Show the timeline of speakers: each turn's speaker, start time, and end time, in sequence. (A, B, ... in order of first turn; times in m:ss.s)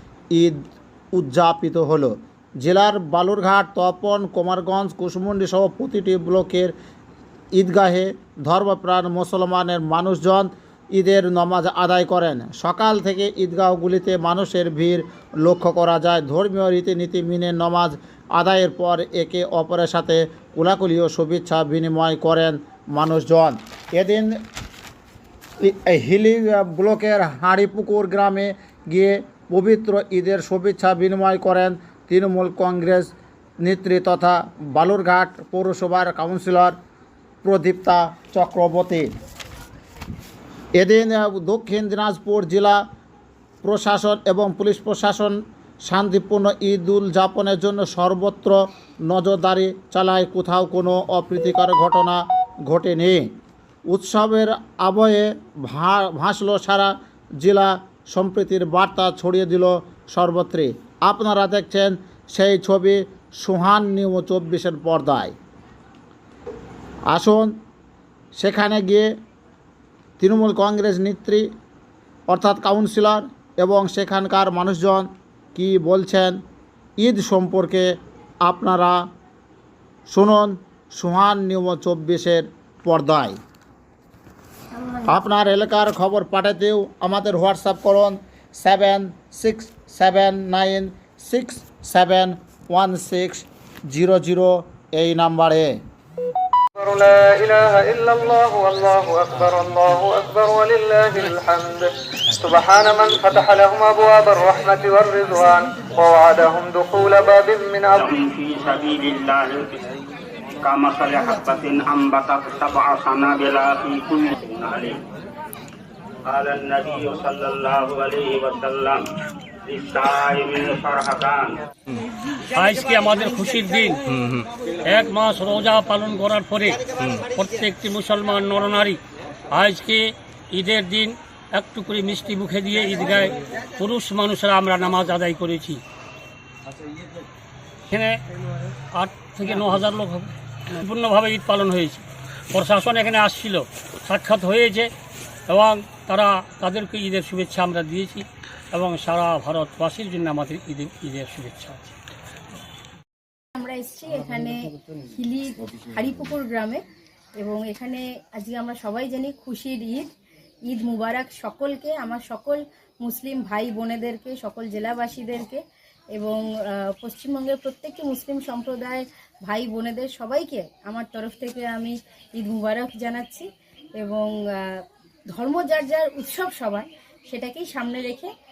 0:00.3-0:00.6 A
0:01.1-0:06.7 A
0:07.6-0:24.4 A
0:25.6-0:36.7 A
0:37.4-0:39.1 A
0:40.8-0:42.8 A
0:43.6-0:53.3 A
0:53.9-1:05.3 A
1:07.1-1:07.5 A
1:08.4-1:09.1 A
1:10.2-1:11.5 A
1:12.3-1:16.4 A
1:17.0-1:17.9 A
1:18.4-1:19.0 A
1:20.1-1:23.4 A
1:24.8-1:25.1 B
1:25.0-1:35.8 A
1:36.8-1:48.1 C
1:47.9-1:49.8 D
1:50.6-1:55.0 D
1:56.3-1:59.0 D
1:59.7-2:01.6 D
2:02.5-2:15.8 E
2:17.9-2:18.2 E
2:18.9-2:24.9 E
2:25.5-2:31.9 E
2:33.5-2:36.8 B
2:37.4-2:40.1 B
2:40.7-2:45.6 B
2:46.2-2:53.5 B
2:54.0-2:58.3 B